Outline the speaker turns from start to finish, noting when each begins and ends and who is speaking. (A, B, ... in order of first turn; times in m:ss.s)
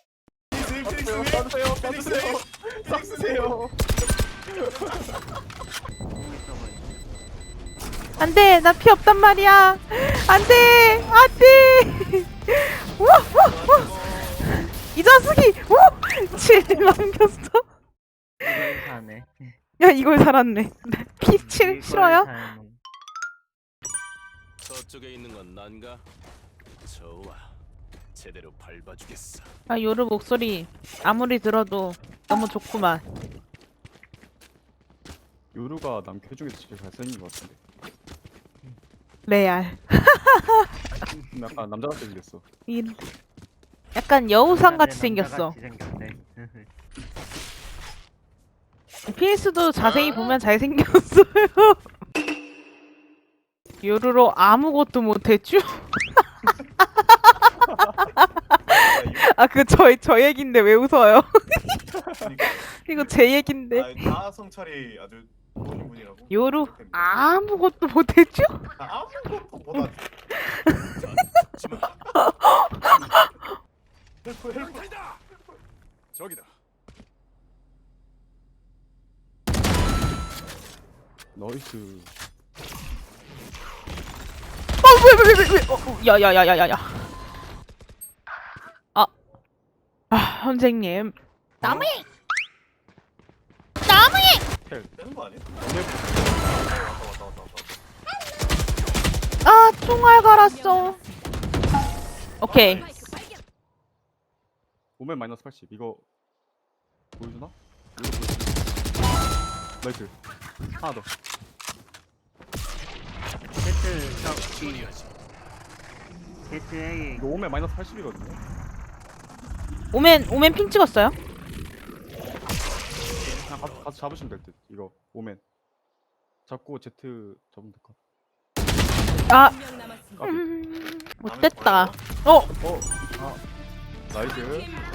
0:00.5-0:03.5 A
0:00.8-0:03.7 B
0:04.5-0:05.1 B
0:06.2-0:07.0 C
0:08.2-0:17.6 D
0:13.4-0:14.6 A
0:18.4-0:19.6 C
0:19.8-0:22.3 D
0:21.2-0:22.8 C
0:24.6-0:26.1 E
0:26.8-0:27.6 E
0:28.1-0:29.5 E
0:29.7-0:33.0 D
0:35.5-0:37.6 B
0:39.3-0:40.7 D
0:41.1-0:41.4 C
0:41.3-0:42.4 B
0:42.7-0:43.0 D
0:44.0-0:45.6 D
0:44.4-0:46.7 C
0:49.1-0:51.9 D
0:49.8-0:50.4 A
0:53.8-0:56.2 D
0:57.1-0:57.4 D
0:57.7-0:57.9 B
0:58.2-1:01.8 D
0:58.7-0:59.3 A
1:01.9-1:02.3 B
1:02.2-1:07.2 A
1:02.6-1:04.2 D
1:06.3-1:08.7 D
1:08.8-1:10.0 A
1:10.3-1:11.1 D
1:11.0-1:12.0 E
1:12.2-1:13.5 D
1:14.2-1:15.0 A
1:14.8-1:15.2 E
1:16.1-1:16.5 E
1:21.4-1:22.1 B
1:24.8-1:27.2 D
1:30.1-1:31.2 D
1:31.6-1:32.0 B
1:31.7-1:32.0 D
1:33.9-1:34.4 D
1:34.7-1:35.0 B
1:35.0-1:35.6 A
1:35.6-1:36.4 B
1:36.4-1:37.8 A
1:39.4-1:41.0 D
1:42.4-1:42.9 D
1:42.4-1:43.2 A
1:45.0-1:46.0 B
1:47.2-1:48.6 B
1:49.8-1:50.2 B
1:50.8-1:51.1 B
1:53.6-1:54.9 C
1:54.5-1:55.1 E
1:56.5-1:57.2 C
1:57.2-1:58.4 B
1:59.9-2:01.2 D
2:03.2-2:05.4 B
2:06.5-2:08.0 B
2:09.3-2:09.7 D
2:10.2-2:10.5 B
2:10.3-2:12.5 D
2:11.2-2:12.0 A
2:12.6-2:13.3 B
2:14.1-2:14.8 B